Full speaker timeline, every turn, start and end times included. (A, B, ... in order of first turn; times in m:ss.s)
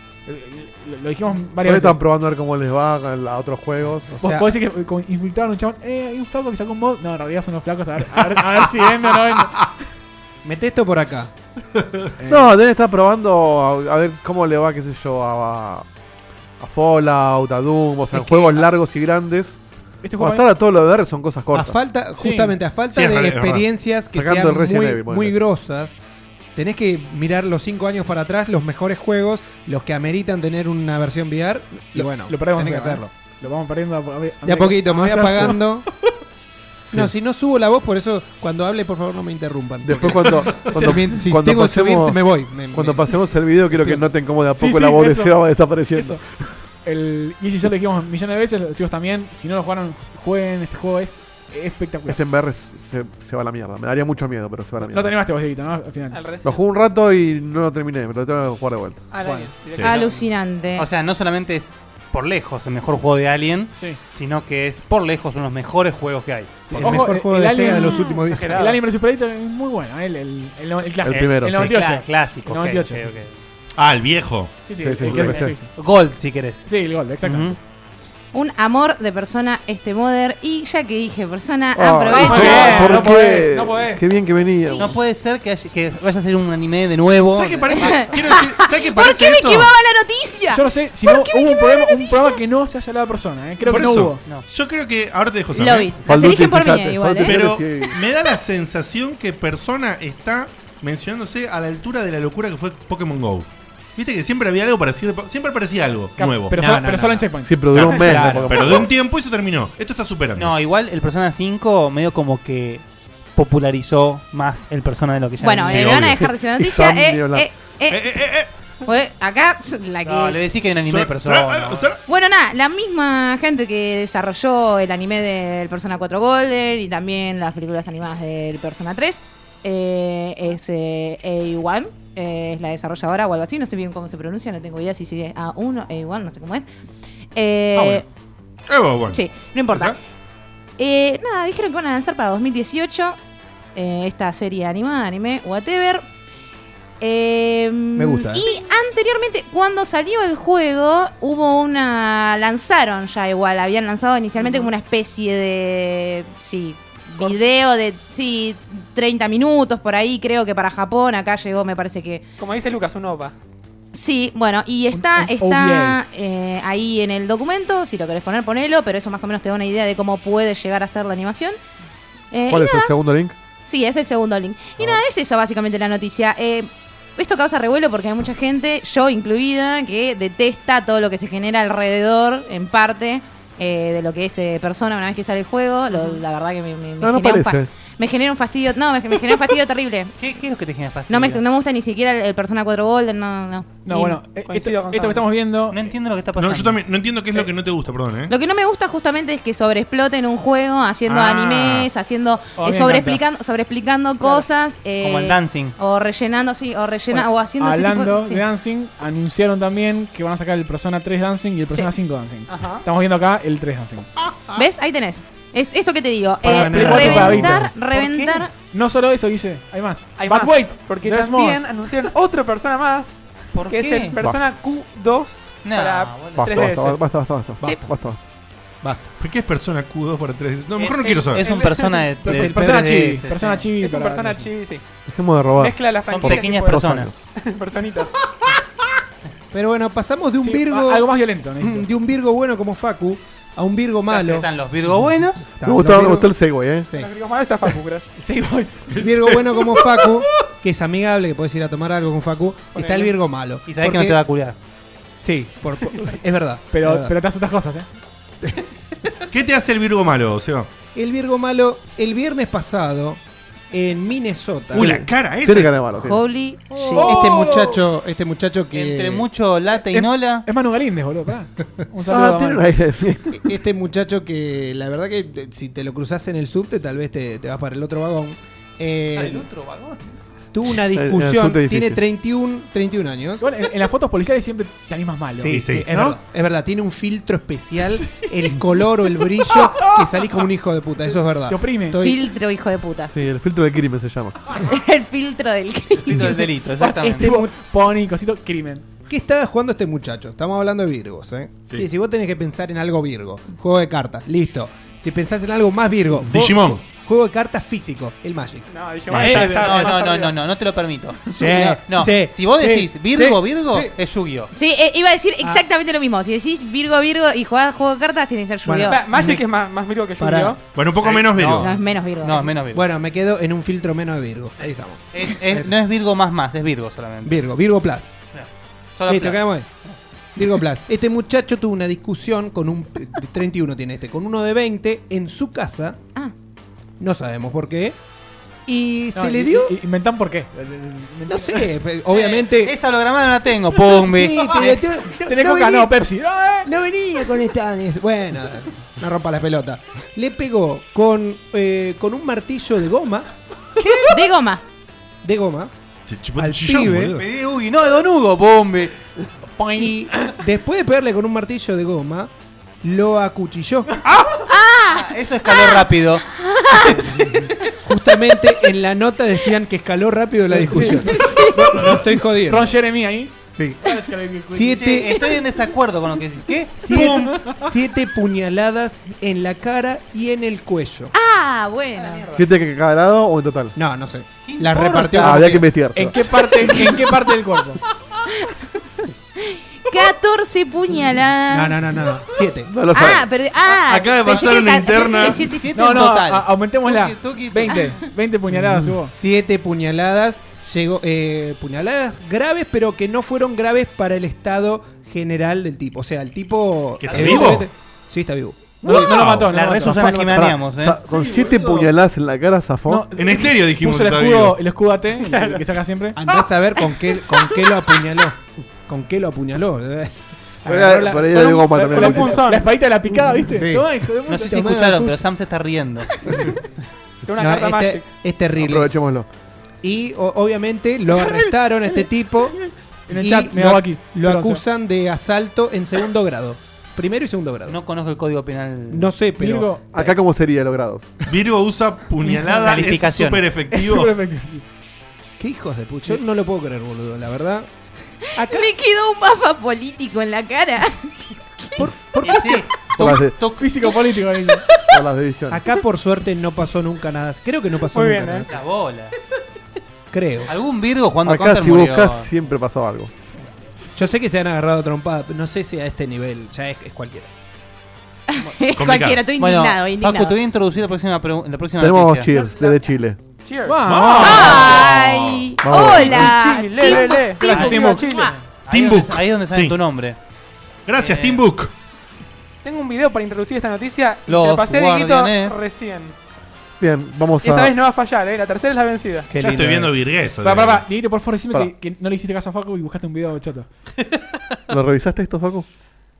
0:00.2-0:02.0 A
0:01.6-0:04.1 B
0:04.1-0:04.5 C
0:04.2-0:09.6 A
0:10.4-0:11.3 C
0:12.2-0:12.5 A
0:12.3-0:15.8 B
0:16.6-0:19.6 B
0:18.1-0:18.6 C
0:20.0-0:20.5 A
0:20.2-0:21.8 B
0:21.5-0:26.0 C
0:22.1-0:22.6 A
0:22.9-0:23.7 D
0:24.1-0:25.4 B
0:26.5-0:33.1 C
0:31.9-0:35.7 A
0:34.4-0:35.8 C
0:36.9-0:43.1 C
0:39.8-0:46.2 B
0:43.7-0:44.0 C
0:44.5-0:45.4 A
0:45.9-0:46.2 A
0:46.8-0:52.2 A
0:52.1-0:55.1 B
0:54.8-0:56.2 A
0:56.1-0:56.6 E
0:56.4-0:59.0 B
0:59.1-1:00.2 E
0:59.7-1:00.0 D
0:59.8-1:00.9 F
1:00.8-1:07.1 G
1:03.7-1:04.0 A
1:06.7-1:13.2 A
1:06.7-1:08.7 C
1:07.8-1:08.8 E
1:11.1-1:11.7 B
1:11.1-1:13.4 G
1:13.8-1:14.5 D
1:14.6-1:15.7 A
1:14.8-1:15.5 B
1:15.1-1:15.4 D
1:15.7-1:16.6 G
1:16.6-1:17.6 A
1:17.2-1:17.6 G
1:18.3-1:23.0 F
1:21.7-1:24.9 B
1:22.1-1:24.2 A
1:24.8-1:27.8 G
1:27.3-1:29.7 D
1:27.7-1:32.4 F
1:30.5-1:34.2 A
1:33.7-1:35.9 D
1:34.1-1:34.4 G
1:35.5-1:37.8 F
1:36.0-1:38.0 B
1:37.2-1:46.6 D
1:46.2-1:48.2 A
1:46.6-1:47.3 C
1:47.4-1:48.9 B
1:47.7-1:50.6 D
1:48.0-1:48.6 C
1:50.4-1:52.8 G
1:53.4-1:56.1 G
1:55.4-1:58.2 F
1:55.6-1:56.1 D
1:55.9-1:57.5 B
1:57.9-1:58.5 D
1:58.8-2:00.4 F
2:00.0-2:01.9 G
2:00.7-2:02.0 D
2:02.1-2:16.6 F
2:17.3-2:18.0 F
2:17.8-2:18.0 A
2:18.7-2:20.0 D
2:19.1-2:20.0 F
2:20.8-2:23.2 F
2:23.7-2:26.0 F
2:27.0-2:42.2 F
2:28.0-2:28.4 C
2:34.4-2:34.7 E
2:42.4-2:43.3 E
2:43.9-2:51.6 F
2:44.9-2:46.0 A
2:52.3-2:52.9 F
2:52.5-2:53.3 B
2:53.6-3:10.1 F
3:05.9-3:06.2 E
3:07.0-3:07.7 B
3:10.2-3:11.4 G
3:11.1-3:14.2 F
3:13.8-3:15.8 A
3:14.4-3:15.3 E
3:15.7-3:16.8 G
3:16.4-3:18.3 D
3:18.3-3:28.4 F
3:21.1-3:21.9 D
3:22.6-3:23.2 A
3:24.2-3:24.4 E
3:25.0-3:25.8 G
3:27.1-3:34.1 A
3:32.5-3:32.8 E
3:34.5-3:38.5 F
3:36.4-3:37.7 A
3:36.4-3:37.7 C
3:37.9-3:38.4 G
3:38.6-3:41.6 A
3:40.2-3:47.0 E
3:43.5-3:44.2 G
3:45.6-3:46.6 G
3:46.3-3:48.2 B
3:48.8-3:49.1 C
3:49.2-3:51.5 D
3:50.8-3:53.6 G
3:51.0-3:52.2 E
3:52.2-3:54.5 A
3:53.8-3:54.8 E
3:55.1-3:57.1 B
3:55.6-3:58.1 E
3:56.0-3:57.1 G
3:59.5-4:01.1 C
4:00.4-4:01.9 A
4:01.6-4:06.3 C
4:04.1-4:05.5 G
4:05.6-4:06.9 B
4:06.9-4:08.1 E
4:08.2-4:08.8 A
4:08.9-4:10.2 D
4:09.0-4:14.2 C
4:12.7-4:13.1 E
4:13.6-4:14.6 G
4:15.2-4:17.1 C
4:16.7-4:17.8 A
4:19.3-4:20.7 D
4:20.9-4:23.2 C
4:23.7-4:25.0 C
4:24.7-4:25.8 D
4:24.7-4:26.2 B
4:26.0-4:27.2 F
4:26.8-4:29.2 C
4:26.9-4:27.5 A
4:28.7-4:30.5 G
4:29.9-4:32.6 A
4:32.1-4:33.5 B
4:33.3-4:39.5 C
4:39.1-4:40.0 G
4:40.5-4:43.4 C
4:40.9-4:42.0 B
4:43.4-4:46.2 A
4:45.4-4:52.2 C
4:45.4-4:45.9 D
4:48.0-4:48.3 A
4:51.5-4:52.0 A
4:52.0-4:53.1 F
4:53.1-4:54.4 B
4:54.5-4:56.5 F
4:56.0-4:57.3 G
4:56.8-4:58.9 A
4:57.0-4:57.5 C
4:59.1-5:09.6 C
5:06.2-5:06.8 D
5:08.7-5:10.4 E
5:09.1-5:09.4 D
5:09.3-5:14.5 G
5:09.3-5:09.8 A
5:11.3-5:13.9 C
5:14.5-5:19.0 F
5:18.6-5:19.4 C
5:18.9-5:20.6 E
5:20.2-5:20.6 C
5:20.7-5:21.8 D
5:20.9-5:22.8 G
5:21.6-5:22.5 F
5:22.7-5:25.7 C
5:25.1-5:27.4 G
5:27.2-5:28.1 C
5:28.3-5:30.0 G
5:29.1-5:29.7 C
5:30.4-5:36.0 C
5:37.0-5:38.0 C
5:38.7-5:39.8 C
5:39.1-5:41.7 A
5:41.3-5:42.8 C
5:42.1-5:44.9 G
5:44.0-5:45.9 C
5:45.2-5:46.7 A
5:46.6-5:53.3 C
5:53.8-5:54.1 G
5:54.1-5:54.6 F
5:55.2-5:55.7 C
5:56.1-5:57.2 D
5:56.4-5:57.1 C
5:57.0-5:59.0 G
5:59.5-6:00.3 A
5:59.8-6:02.3 C
6:02.8-6:03.9 C
6:04.5-6:07.3 F
6:04.9-6:07.2 G
6:07.8-6:12.7 C
6:10.5-6:14.9 A
6:10.9-6:11.8 F
6:13.5-6:13.8 C
6:14.5-6:15.2 C
6:14.7-6:17.5 G
6:16.8-6:21.1 C
6:21.1-6:22.3 F
6:22.0-6:22.4 E
6:22.3-6:23.7 B
6:23.8-6:25.7 C
6:24.4-6:25.6 G
6:25.2-6:26.2 B
6:25.9-6:27.8 A
6:29.4-6:31.8 F
6:31.5-6:32.7 C
6:32.7-6:33.3 B
6:32.9-6:35.7 F
6:33.7-6:35.5 D
6:35.4-6:37.9 G
6:35.7-6:39.1 A
6:37.7-6:38.0 F
6:38.5-6:49.0 C
6:47.0-6:47.7 D
6:48.8-6:50.6 A
6:48.9-6:49.5 D
6:49.1-6:51.0 G
6:50.2-6:53.1 B
6:52.8-6:56.2 A
6:53.1-6:54.6 D
6:55.2-6:55.6 E
6:56.2-7:02.0 C
7:00.6-7:02.4 B
7:01.4-7:02.7 E
7:01.8-7:04.9 A
7:03.1-7:03.9 C
7:04.2-7:06.2 G
7:04.5-7:05.1 C
7:07.2-7:08.0 E
7:07.4-7:09.0 C
7:08.6-7:09.3 B
7:09.8-7:12.6 C
7:13.1-7:14.6 A
7:13.1-7:17.8 C
7:17.7-7:19.1 G
7:18.9-7:20.1 C
7:19.4-7:20.0 A
7:19.9-7:21.0 B
7:21.3-7:24.1 D
7:22.3-7:22.5 A
7:22.6-7:23.5 G
7:23.7-7:24.6 A
7:25.4-7:27.7 C
7:28.4-7:28.7 C
7:28.4-7:31.8 F
7:31.8-7:32.6 C
7:32.2-7:33.9 G
7:33.0-7:33.3 B
7:33.4-7:34.6 A
7:34.9-7:35.6 B
7:35.5-7:38.6 C
7:37.9-7:38.5 E
7:38.5-7:39.1 G
7:40.1-7:40.5 C
7:40.4-7:42.3 G
7:41.2-7:43.1 B
7:44.0-7:47.3 C
7:48.3-7:50.3 F
7:48.7-7:49.3 D
7:49.3-7:52.4 G
7:51.8-7:53.2 B
7:52.4-7:52.7 E
7:53.4-7:53.9 E
7:53.6-7:54.7 A
7:53.8-7:55.5 D
7:54.2-7:58.4 F
7:55.6-7:56.3 B
7:56.0-7:58.3 E
7:57.4-7:58.2 A
7:58.5-8:00.2 G
7:58.7-7:59.8 D
8:00.9-8:01.7 D
8:01.0-8:01.4 G
8:02.6-8:06.1 E
8:04.3-8:05.6 G
8:06.8-8:07.7 B
8:07.4-8:09.3 E
8:09.3-8:09.9 C
8:09.4-8:10.8 D
8:10.4-8:13.7 A
8:14.7-8:15.6 B